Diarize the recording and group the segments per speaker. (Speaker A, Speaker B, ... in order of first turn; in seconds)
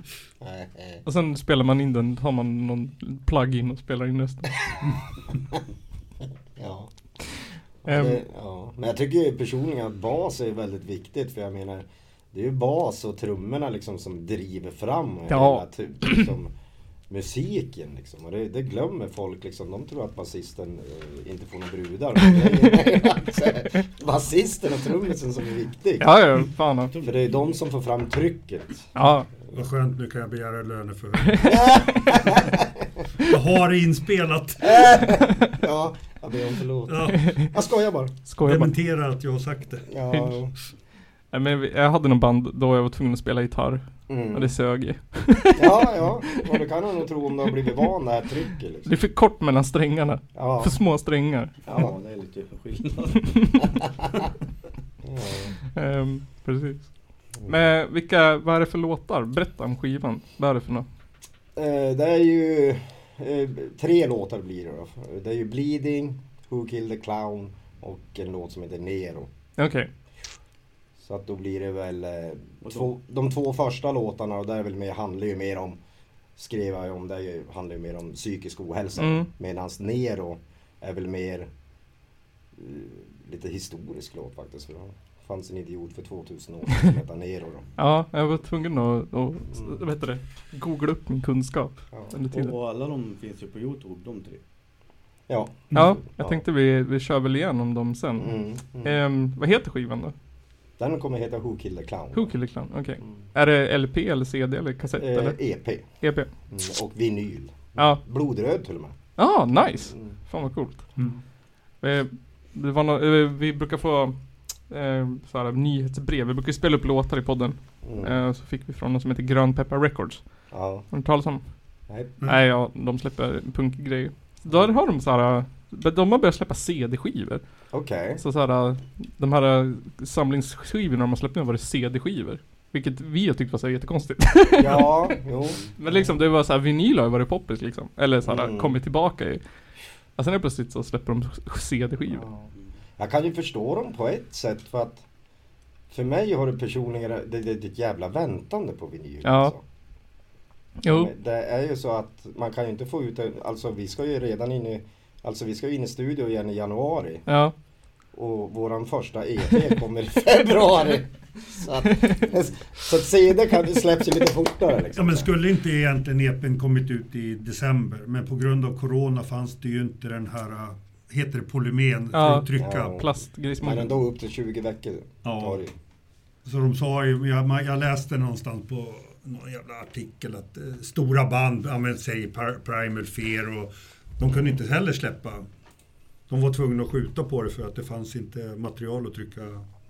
Speaker A: 0.4-1.0, 6.6-6.9, 7.8-16.5, 17.1-28.9, 31.4-32.8, 34.6-38.1, 39.9-40.5, 44.1-44.5, 45.5-48.9, 50.3-50.8, 55.0-55.5, 61.5-69.3, 71.0-75.8, 76.4-81.5, 82.5-87.7, 95.3-96.4, 98.2-99.0, 100.8-102.3, 104.9-105.8, 106.5-109.0, 109.9-110.1, 117.8-118.2, 120.5-120.8, 121.9-122.1, 127.7-128.2, 134.6-136.1, 138.2-138.8, 142.1-145.0, 145.9-149.6, 150.8-157.2, 158.1-165.3, 172.5-175.7
Speaker B: 1.0-4.5, 7.8-8.2, 15.3-16.3, 22.5-22.7, 26.0-26.9, 28.9-29.3, 37.2-37.5, 38.3-38.7, 41.3-46.4, 48.9-51.5, 55.7-60.9, 69.6-69.9, 79.0-79.3, 87.8-92.5, 95.7-100.1, 102.1-105.4, 106.0-106.3, 107.8-108.0, 109.2-110.8, 111.8-114.2, 114.7-120.2, 120.9-121.4, 122.2-127.4, 128.2-134.9, 135.8-139.4, 140.2-142.3, 149.2-149.5, 150.8-151.1, 157.3-157.5, 172.1-174.0
Speaker C: 26.9-27.6, 51.6-53.9, 72.6-72.9, 92.3-94.4
Speaker D: 29.5-31.9, 33.2-35.1, 36.9-37.3, 38.4-39.9, 164.9-173.0, 175.2-175.6, 176.4-185.4, 186.3-189.6